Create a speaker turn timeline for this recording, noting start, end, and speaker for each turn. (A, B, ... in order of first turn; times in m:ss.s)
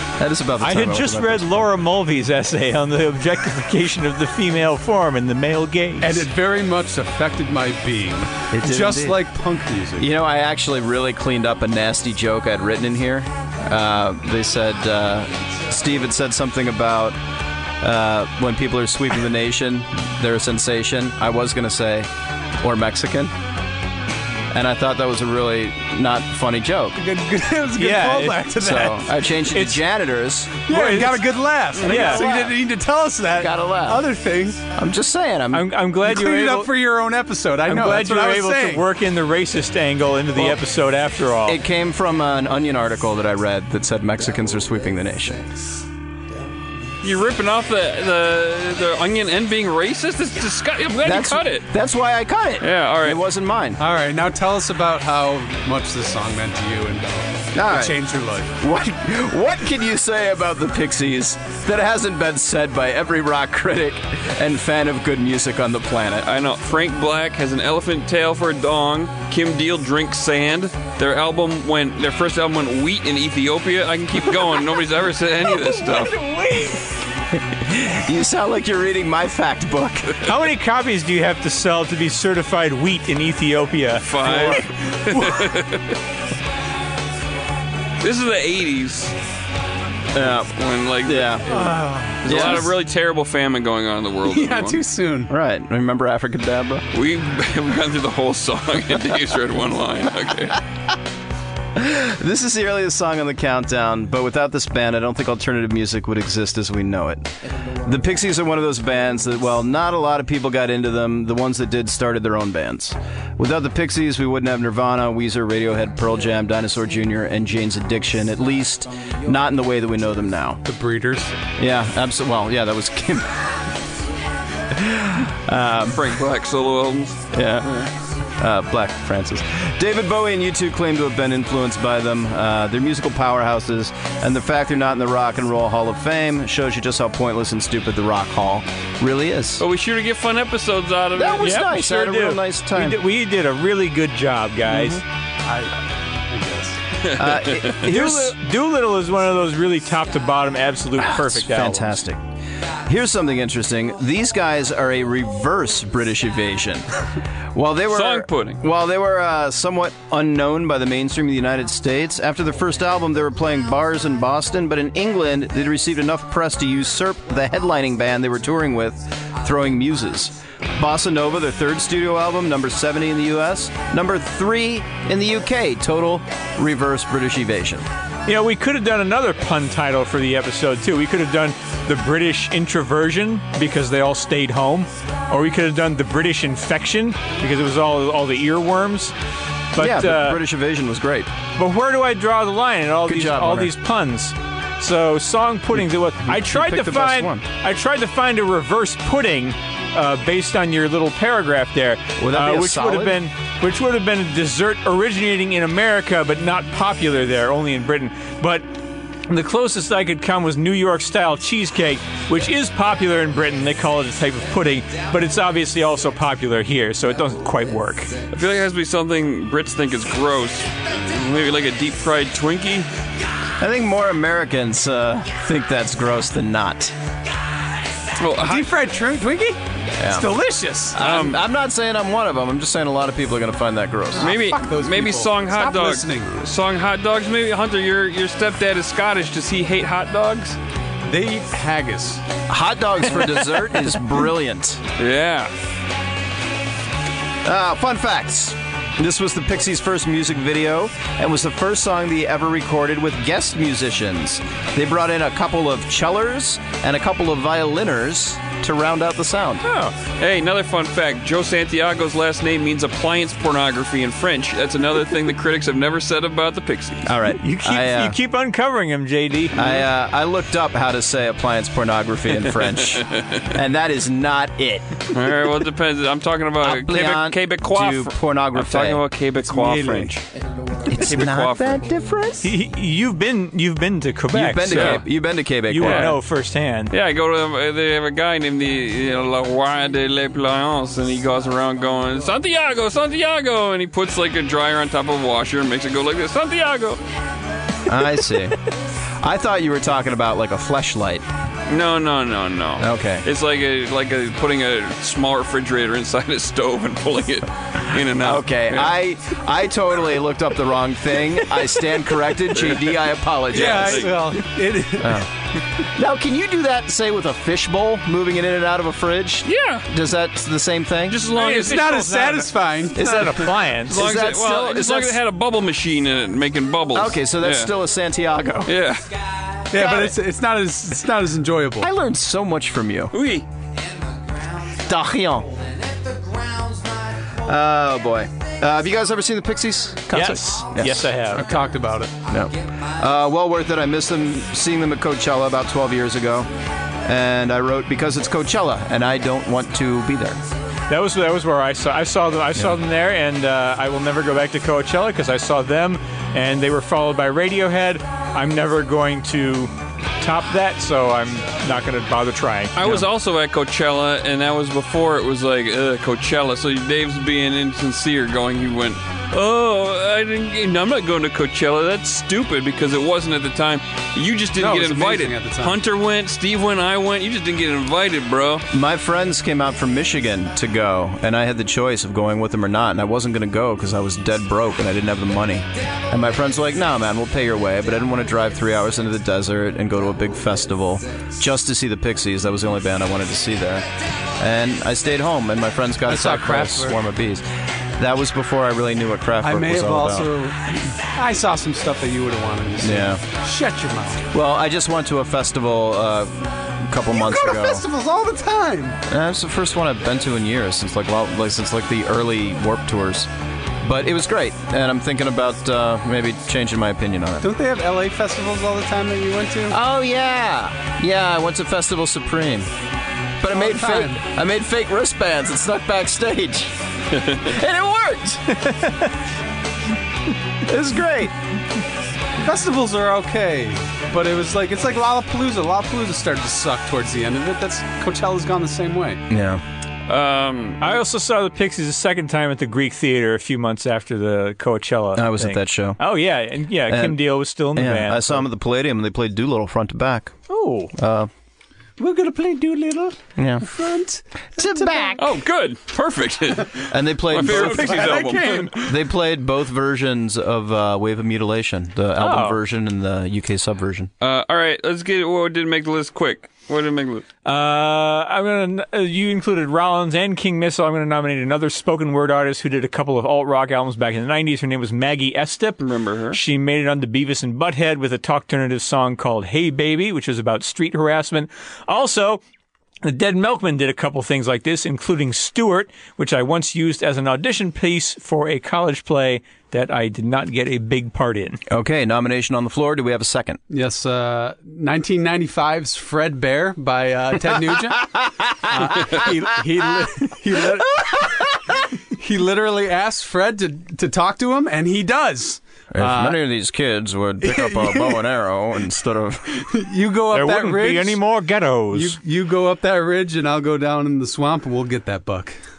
0:00.2-0:01.7 A
0:00.6-0:06.3 B
0:06.0-0:10.1 C
0:08.5-0:09.2 A
0:10.0-0:17.2 A
0:17.8-0:22.1 A
0:22.6-0:23.3 A
0:24.5-0:27.0 A
0:27.0-0:29.1 C
0:27.8-0:28.5 B
0:28.5-0:30.6 A
0:29.4-0:29.8 B
0:30.7-0:34.6 C
0:30.7-0:32.3 B
0:31.8-0:32.6 A
0:33.3-0:34.1 A
0:34.7-0:35.7 A
0:35.5-0:36.7 B
0:36.0-0:38.8 C
0:37.6-0:41.6 B
0:41.4-0:45.4 A
0:47.0-0:51.6 D
0:51.0-0:53.8 A
0:52.6-0:53.2 D
0:53.8-0:58.5 C
0:57.5-0:58.0 A
0:58.6-1:06.3 A
1:06.2-1:16.1 D
1:15.7-1:16.7 A
1:17.4-1:20.2 A
1:20.2-1:24.1 B
1:24.0-1:26.0 D
1:24.2-1:24.7 A
1:28.0-1:29.1 D
1:30.1-1:31.7 A
1:30.2-1:34.8 D
1:31.5-1:32.6 C
1:32.2-1:32.7 A
1:34.3-1:35.3 C
1:35.3-1:36.8 A
1:36.9-1:40.6 D
1:41.8-2:00.6 A
2:00.6-2:01.3 C
2:01.6-2:03.5 A
2:04.7-2:06.2 A
2:05.9-2:07.9 D
2:07.3-2:19.6 A
2:19.6-2:21.6 D
2:21.1-2:23.0 A
2:21.4-2:25.0 B
2:24.7-2:25.0 A
2:25.4-2:26.8 C
2:27.0-2:27.7 D
2:27.1-2:28.4 A
2:27.8-2:32.0 B
2:31.0-2:32.2 A
2:32.8-2:36.9 A
2:37.5-2:57.8 A
2:37.9-2:38.6 D
2:58.2-3:09.1 B
3:09.7-3:10.4 B
3:09.8-3:11.3 A
3:11.6-3:28.7 B
3:13.0-3:13.7 A
3:16.2-3:17.4 A
3:22.2-3:23.2 A
3:29.3-3:38.1 B
3:38.3-3:42.9 D
3:43.6-3:46.9 A
3:48.2-3:48.7 D
3:48.4-3:51.0 C
3:50.0-3:50.3 A
3:50.9-3:54.3 A
3:51.0-3:51.4 D
3:54.2-3:56.4 C
3:54.2-4:00.6 D
4:01.1-4:02.2 C
4:02.5-4:04.8 A
4:05.0-4:05.5 D
4:07.4-4:19.6 A
4:19.6-4:19.9 B
4:20.2-4:27.0 D
4:27.0-4:28.2 A
4:27.4-4:29.6 B
4:29.5-4:35.0 A
4:33.0-4:33.4 D
4:35.1-4:40.2 D
4:36.6-4:39.0 A
4:39.4-4:40.2 C
4:40.8-4:42.5 A
4:40.9-4:41.9 D
4:42.4-4:45.0 B
4:44.3-4:46.2 A
4:44.7-4:45.0 D
4:45.7-4:46.9 B
4:45.8-4:46.2 D
4:46.9-4:57.0 D
4:57.9-4:58.6 A
4:59.2-5:01.2 A
5:01.7-5:08.9 D
5:02.8-5:03.2 A
5:08.1-5:14.2 A
5:12.5-5:14.1 D
5:13.5-5:15.2 C
5:15.0-5:15.3 A
5:15.8-5:21.3 A
5:19.4-5:19.8 D
5:21.1-5:22.5 D
5:21.3-5:23.6 C
5:22.9-5:24.0 B
5:23.0-5:25.2 A
5:23.9-5:27.7 D
5:26.9-5:28.7 A
5:28.6-5:29.1 D
5:29.7-5:31.9 C
5:29.7-5:30.2 A
5:31.8-5:33.1 A
5:33.1-5:33.5 D
5:34.8-5:35.5 A
5:37.4-5:41.4 A
5:40.1-5:41.4 B
5:41.3-5:42.1 C
5:42.3-5:46.5 A
5:47.0-5:50.4 A
5:50.9-6:03.0 B
6:02.7-6:18.6 D
6:14.6-6:15.8 C
6:18.7-6:33.9 A
6:34.4-6:37.4 A
6:36.1-6:37.0 C
6:38.0-6:40.3 A
6:39.4-6:44.2 C
6:42.8-6:43.2 A
6:44.3-6:47.8 A
6:47.1-6:49.0 C
6:49.1-6:53.3 A
6:53.8-6:57.5 A
6:57.4-6:59.8 C
6:59.7-7:02.7 A
7:03.4-7:06.7 A
7:03.5-7:04.2 C
7:07.3-7:08.7 A
7:10.6-7:11.3 A
7:12.4-7:19.2 C
7:19.3-7:19.6 A
7:20.1-7:20.8 D
7:20.8-7:28.4 B
7:25.1-7:26.0 A
7:26.9-7:30.4 A
7:30.5-7:30.9 B
7:30.9-7:31.3 A
7:32.0-7:33.0 C
7:32.0-7:33.1 B
7:33.4-7:33.7 A
7:33.7-7:35.2 C
7:34.6-7:35.3 A
7:35.2-7:38.7 D
7:36.9-7:38.2 A
7:37.4-7:39.0 C
7:38.8-7:44.1 A
7:42.2-7:42.6 B
7:44.2-7:47.2 D
7:47.4-8:02.4 B
7:55.8-7:56.4 D
8:03.0-8:11.6 B
8:11.7-8:13.6 A
8:13.7-8:18.2 C
8:18.7-8:26.4 C
8:25.9-8:29.6 A
8:27.4-8:28.2 C
8:29.6-8:31.2 C
8:30.3-8:32.2 B
8:31.9-8:35.6 C